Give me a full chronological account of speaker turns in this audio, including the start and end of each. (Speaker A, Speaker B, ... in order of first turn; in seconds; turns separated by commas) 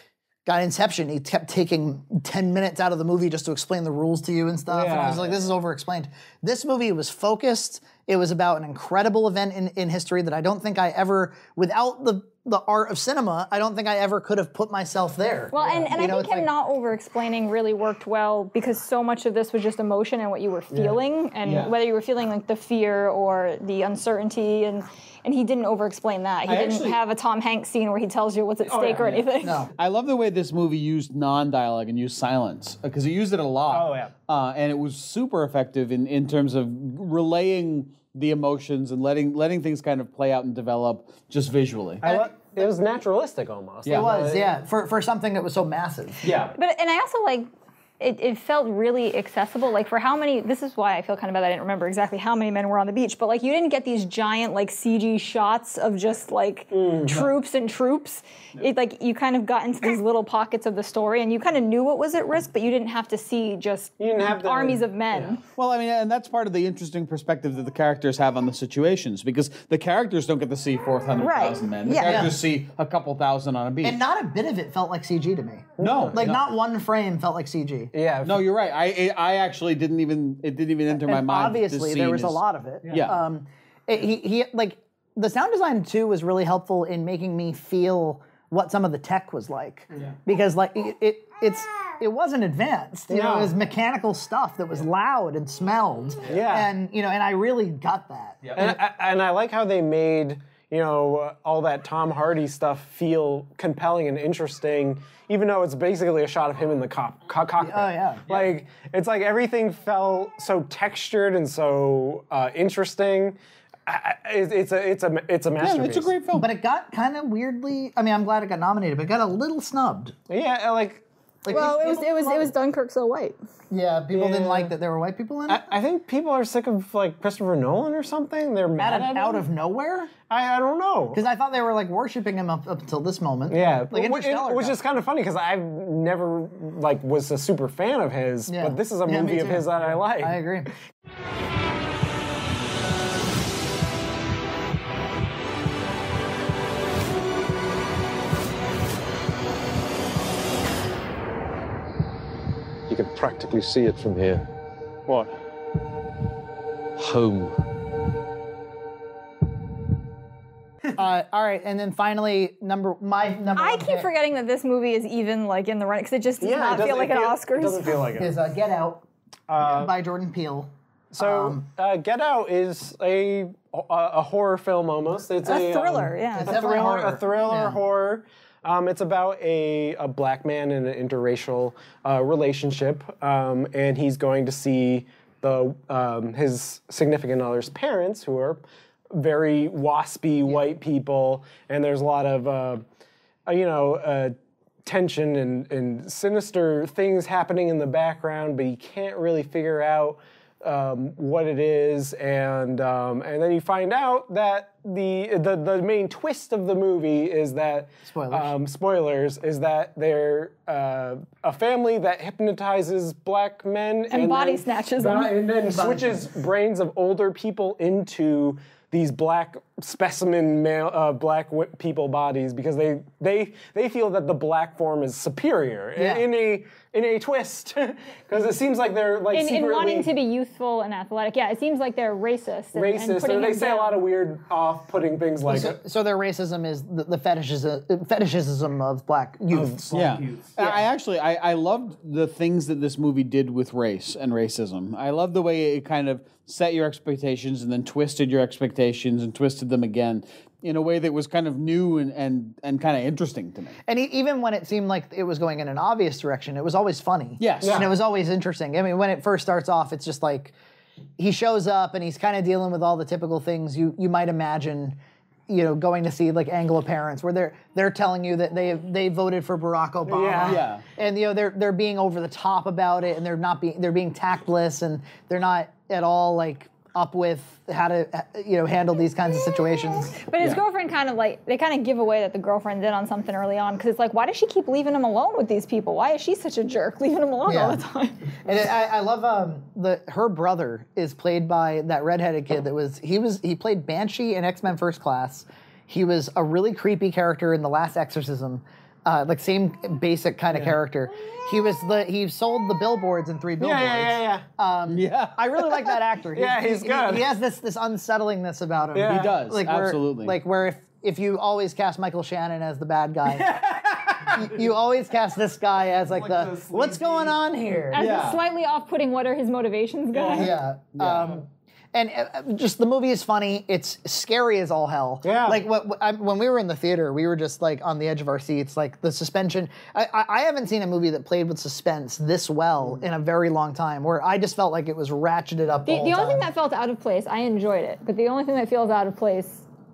Speaker A: 0.5-16.5, Speaker B: 4.7-5.3, Speaker C: 15.5-29.6, Speaker B: 15.6-15.9, Speaker B: 20.7-21.0, Speaker D: 21.4-21.7, Speaker D: 26.4-27.0, Speaker B: 28.6-29.3, Speaker A: 29.4-29.7, Speaker D: 29.8-42.0, Speaker B: 33.7-34.1, Speaker B: 42.0-44.5, Speaker A: 42.0-42.6, Speaker D: 43.9-44.1, Speaker A: 43.9-46.3, Speaker D: 46.2-46.5, Speaker C: 46.6-47.5, Speaker C: 48.0-65.4, Speaker B: 56.7-57.2, Speaker B: 64.0-65.3, Speaker D: 65.6-74.0, Speaker C: 71.2-72.2, Speaker A: 72.0-72.4, Speaker A: 73.8-77.9, Speaker B: 75.8-76.3, Speaker D: 75.8-76.5, Speaker B: 77.9-78.5, Speaker D: 78.2-83.2, Speaker A: 80.9-98.8, Speaker B: 93.1-93.5, Speaker B: 96.3-96.7, Speaker B: 98.6-116.1, Speaker A: 107.6-108.2, Speaker D: 108.3-108.6, Speaker D: 115.6-116.5, Speaker A: 116.3-120.2, Speaker B: 120.3-121.0, Speaker A: 121.5-122.5, Speaker C: 121.5-123.4, Speaker A: 123.7-125.7, Speaker B: 124.1-124.7, Speaker B: 125.5-129.4, Speaker A: 128.8-130.1, Speaker B: 130.3-131.2, Speaker A: 131.1-134.8, Speaker B: 133.5-140.4, Speaker A: 138.5-140.7, Speaker E: 152.9-154.4, Speaker E: 157.0-157.5, Speaker A: 161.0-164.1, Speaker C: 163.6-168.0, Speaker B: 166.4-168.3, Speaker A: 168.2-169.1, Speaker B: 169.5-169.9, Speaker A: 169.6-171.7, Speaker B: 171.1-188.6, Speaker C: 175.4-176.6, Speaker A: 176.3-177.8, Speaker B: 189.1-192.8, Speaker B: 193.5-230.1, Speaker A: 208.1-208.5, Speaker C: 214.1-215.3, Speaker A: 215.7-216.2, Speaker A: 226.0-226.3, Speaker C: 229.3-234.1, Speaker B: 232.8-235.8, Speaker A: 235.5-240.8, Speaker B: 239.5-240.5, Speaker D: 239.9-253.8, Speaker A: 253.9-260.6, Speaker D: 257.4-257.9, Speaker B: 257.6-257.9, Speaker A: 261.2-280.2, Speaker B: 270.1-270.6, Speaker D: 270.4-270.8, Speaker C: 280.2-288.3, Speaker A: 287.5-287.8, Speaker A: 288.4-313.5, Speaker B: 303.6-304.5, Speaker D: 304.9-306.0, Speaker B: 306.4-307.3, Speaker B: 308.9-309.3, Speaker D: 309.0-310.4, Speaker B: 313.3-314.5, Speaker A: 314.3-318.0, Speaker B: 316.1-317.4, Speaker C: 317.9-320.6, Speaker D: 317.9-318.4, Speaker B: 320.1-320.5, Speaker A: 320.3-336.5, Speaker D: 321.0-321.3, Speaker B: 325.2-325.6, Speaker C: 335.9-339.7